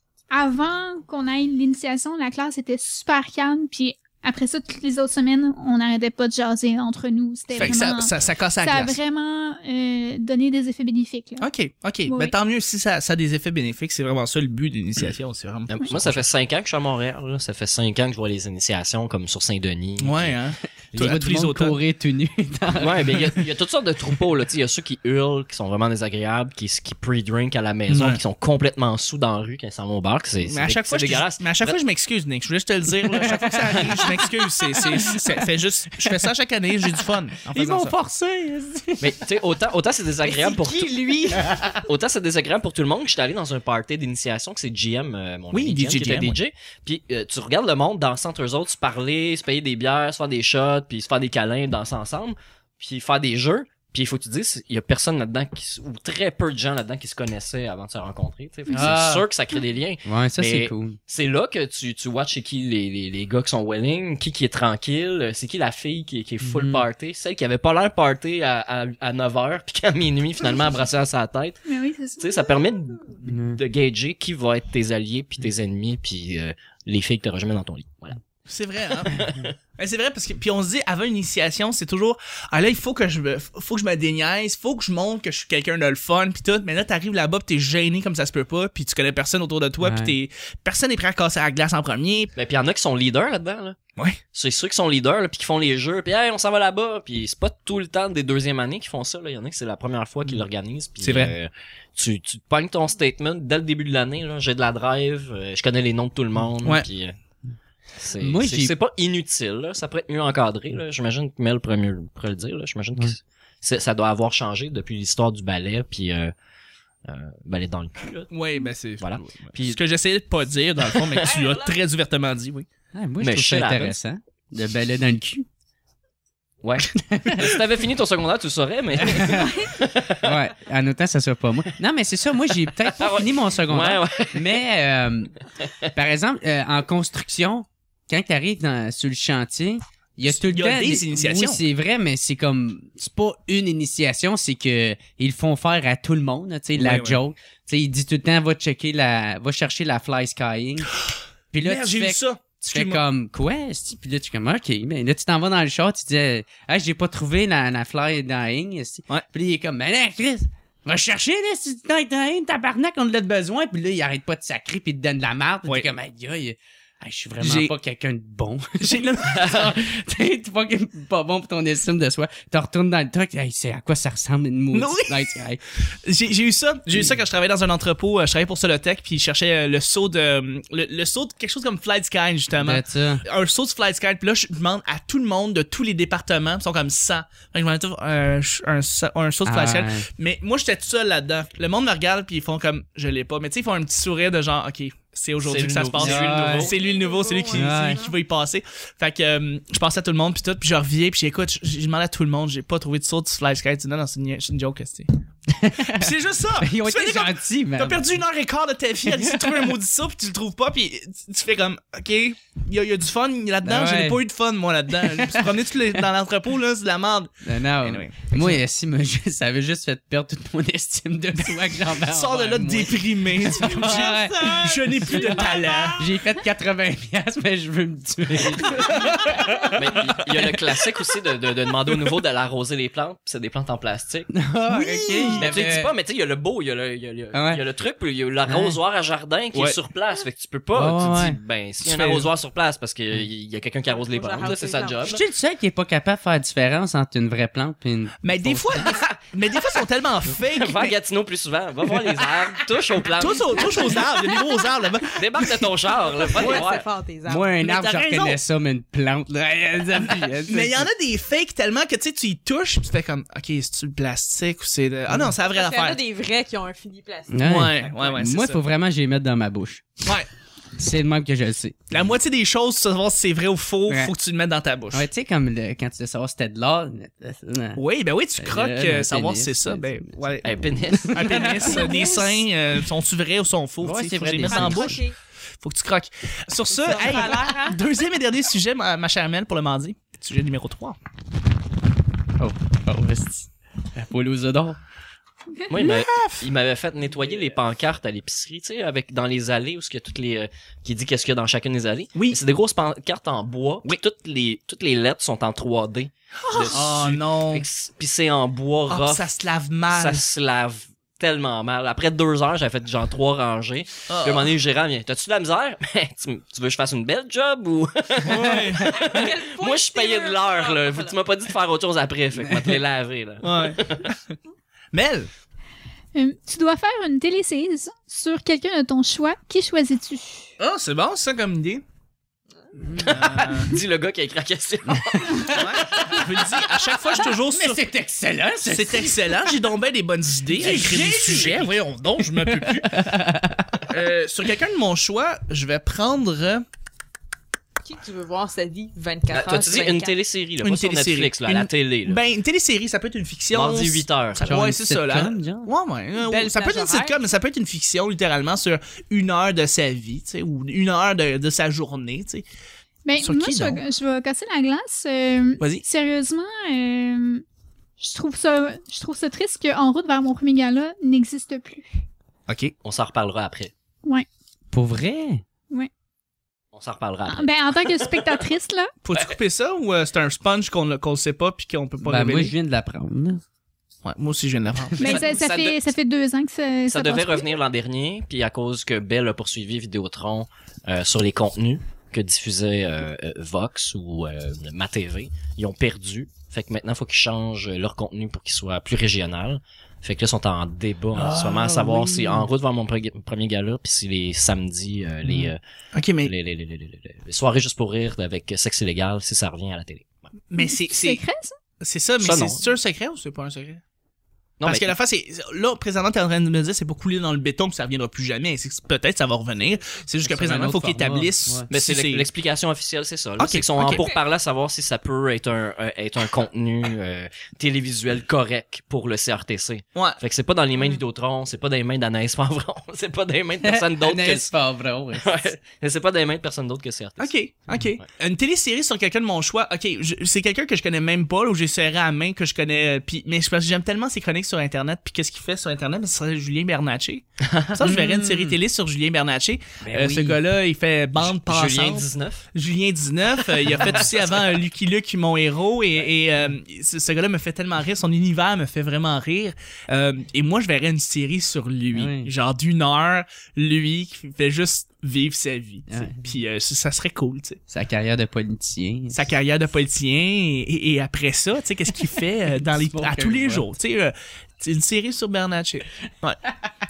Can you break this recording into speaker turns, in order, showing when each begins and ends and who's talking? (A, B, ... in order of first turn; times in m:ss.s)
0:00.3-0:11.5 A
0:07.6-0:09.0 B
0:07.6-0:08.3 C
0:11.4-0:16.2 B
0:12.1-0:12.3 A
0:15.7-0:20.4 C
0:20.0-0:21.8 B
0:20.9-0:23.5 D
0:22.8-0:31.8 C
0:27.9-0:28.2 B
0:30.4-0:38.0 B
0:33.1-0:35.3 D
0:37.5-0:39.2 D
0:39.0-0:41.0 C
0:40.2-0:41.5 E
0:41.8-1:11.6 C
0:45.5-0:46.4 B
0:58.7-0:59.3 D
1:00.0-1:01.0 D
1:06.4-1:06.8 D
1:11.7-1:12.5 A
1:12.2-1:18.2 C
1:13.3-1:13.6 D
1:18.5-1:32.3 B
1:19.0-1:19.5 C
1:29.8-1:30.2 D
1:32.4-1:33.8 C
1:34.3-1:47.2 C
1:41.0-1:41.3 B
1:48.0-1:56.3 C
1:48.2-1:48.7 D
1:57.0-1:58.3 C
1:58.3-2:02.7 B
1:59.0-1:59.8 C
2:00.9-2:01.5 C
2:01.4-2:01.6 E
2:03.0-2:05.5 D
2:03.2-2:04.0 C
2:06.6-2:10.3 C
2:07.0-2:07.5 D
2:09.0-2:09.6 D
2:09.3-2:09.7 A
2:10.2-2:15.3 D
2:12.8-2:14.4 C
2:15.9-2:30.9 D
2:20.3-2:21.6 B
2:26.8-2:27.2 B
2:31.5-2:55.6 D
2:31.6-2:33.0 B
2:47.4-2:47.7 B
2:48.8-2:49.7 B
2:54.7-3:25.1 B
3:02.6-3:03.2 D
3:09.4-3:10.1 D
3:15.4-3:16.7 C
3:16.0-3:16.7 D
3:16.6-3:18.1 E
3:17.5-3:18.1 D
3:25.5-3:28.1 D
3:25.9-3:38.6 B
3:29.1-3:29.7 D
3:33.6-3:34.2 D
3:35.0-3:35.6 D
3:37.4-3:49.8 D
3:42.0-3:46.1 B
3:43.8-3:46.0 E
3:48.3-3:48.9 C
3:49.0-3:49.4 B
3:49.7-3:54.3 C
3:54.3-3:55.9 D
3:54.7-3:55.5 B
3:55.4-4:05.2 C
3:57.3-3:57.6 D
3:58.5-3:58.8 D
4:00.8-4:01.4 D
4:01.8-4:02.3 B
4:03.9-4:05.2 E
4:05.0-4:09.0 D
4:08.2-4:10.9 B
4:10.5-4:14.0 C
4:13.2-4:15.7 B
4:15.1-4:16.9 C
4:16.2-4:17.6 E
4:17.3-4:20.9 D
4:17.6-4:18.4 B
4:20.5-4:26.0 B
4:25.4-4:28.2 E
4:27.3-4:30.0 D
4:27.4-4:28.6 B
4:30.8-4:31.9 D
4:31.9-4:35.1 B
4:34.9-4:37.8 D
4:37.8-4:40.5 B
4:38.4-4:42.2 D
4:40.4-4:41.5 C
4:41.0-4:45.0 B
4:43.8-4:45.0 D
4:44.4-4:45.2 E
4:45.6-4:51.0 B
4:46.7-4:47.8 E
4:52.4-4:54.8 D
4:55.7-5:09.3 C
4:55.8-4:56.4 B
5:02.2-5:02.4 B
5:06.6-5:07.6 B
5:08.9-5:10.2 B
5:09.9-5:24.1 C
5:14.1-5:14.5 B
5:18.2-5:19.1 B
5:18.9-5:21.2 E
5:22.4-5:22.8 D
5:23.4-5:24.3 B
5:24.9-5:25.3 B
5:26.1-5:30.5 A
5:30.6-5:31.8 B
5:32.8-5:33.2 D
5:33.0-5:35.7 C
5:33.1-5:33.7 B
5:35.0-5:36.3 D
5:35.5-5:37.8 B
5:37.4-5:39.5 D
5:38.6-5:43.0 B
5:40.6-5:43.8 D
5:43.9-5:46.6 B
5:47.8-5:50.1 E
5:49.3-5:52.2 C
5:50.6-6:02.4 B
5:53.5-5:54.5 C
5:54.4-5:55.7 D
5:56.2-5:57.2 E
6:03.0-6:07.4 A
6:03.2-6:03.8 B
6:08.0-6:11.9 A
6:12.5-6:12.7 B
6:12.8-6:13.7 C
6:14.7-6:15.4 D
6:16.7-6:18.4 C
6:17.3-6:18.9 A
6:19.0-6:22.6 B
6:22.0-6:23.4 D
6:24.0-6:25.2 B
6:25.0-6:27.5 A
6:25.0-6:25.8 C
6:26.9-6:45.6 C
6:41.2-6:42.4 D
6:45.3-6:45.5 D
6:45.9-6:46.3 B
6:46.2-6:50.2 C
6:50.5-6:51.2 B
6:50.6-6:51.6 A
6:51.8-6:53.8 B
6:52.2-6:52.6 C
6:54.6-6:54.9 C
6:54.6-7:02.3 B
7:00.2-7:01.7 D
7:01.7-7:14.5 C
7:03.4-7:04.0 B
7:03.8-7:04.2 E
7:10.0-7:10.2 B
7:13.6-7:15.5 D
7:15.2-7:17.3 C
7:17.2-7:47.6 B
7:27.4-7:27.7 C
7:27.8-7:28.6 D
7:29.9-7:30.4 D
7:31.2-7:32.4 C
7:33.8-7:34.2 C
7:41.9-7:42.3 D
7:45.9-7:46.2 D
7:47.7-7:49.2 D
7:49.1-7:56.4 B
7:52.6-7:53.6 D